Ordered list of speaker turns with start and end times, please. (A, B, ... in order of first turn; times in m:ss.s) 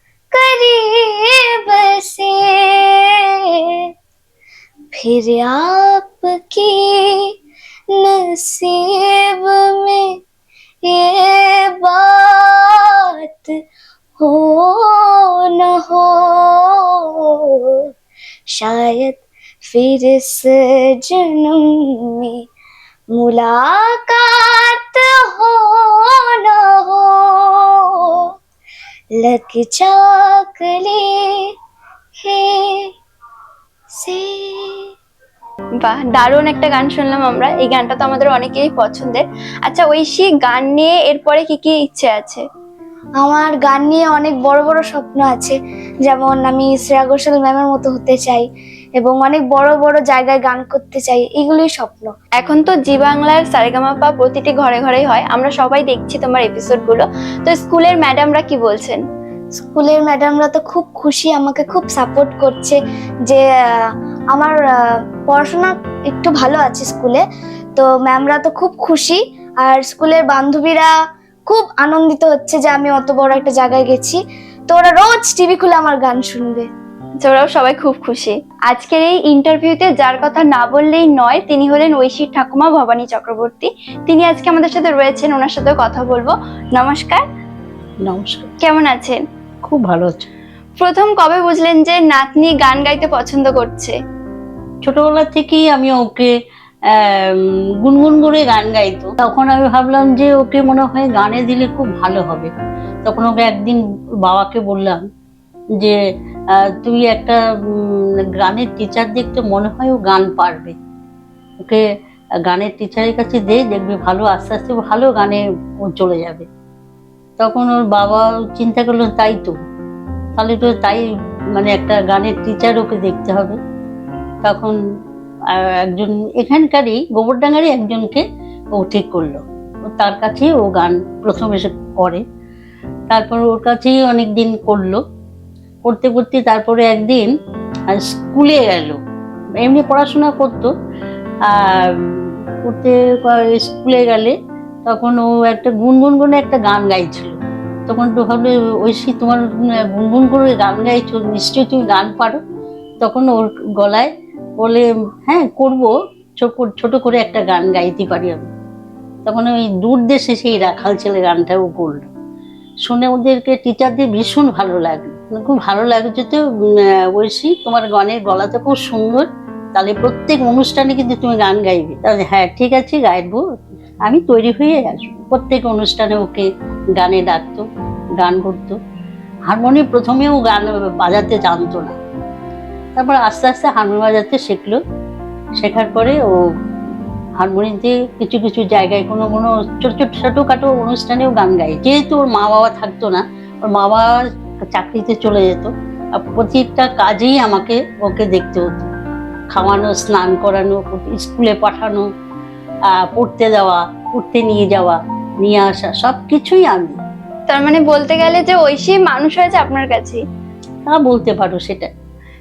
0:00.3-0:03.1 A
0:04.9-0:07.3 A
0:08.0-0:10.2 A
0:10.8-0:13.5 A
0:14.2-0:17.8 A
0:18.5-0:22.4 A
0:23.2-0:27.7 A
0:29.2-0:31.3 A
0:32.2-0:32.9 A
0:34.0-0:34.8 A
0:35.8-0:42.4 B
0:43.2-0:48.5 A
0:49.0-0:52.1 A
0:52.4-0:59.0 B
0:59.6-1:03.4 A
1:05.3-1:07.2 A
1:07.8-1:10.9 A
1:11.5-1:14.2 A
1:14.7-1:16.7 A
1:17.2-1:27.2 B
1:28.0-1:28.5 C
1:28.6-1:29.2 B
1:29.6-1:30.3 C
1:30.8-1:34.0 B
1:34.8-1:36.3 C
1:36.9-1:42.5 C
1:43.0-1:45.0 C
1:46.5-1:50.8 C
1:52.4-1:56.4 C
1:57.4-1:59.6 C
2:00.4-2:01.0 C
2:01.5-2:03.6 C
2:04.4-2:04.8 C
2:05.5-2:08.2 C
2:08.8-2:09.4 C
2:10.0-2:12.2 C
2:13.1-2:15.0 C
2:15.8-2:17.3 C
2:17.9-2:19.0 C
2:19.6-2:20.7 C
2:21.4-2:27.3 C
2:27.9-2:32.4 C
2:33.0-2:38.5 C
2:39.2-2:42.1 C
2:42.8-2:53.4 C
2:54.0-2:57.7 C
2:58.2-2:58.8 C
2:59.5-3:02.0 C
3:03.0-3:04.8 C
3:05.6-3:06.2 C
3:07.4-3:14.1 C
3:14.6-3:18.9 C
3:19.5-3:22.0 C
3:22.9-3:27.0 C
3:27.5-3:30.2 B
3:30.9-3:31.9 C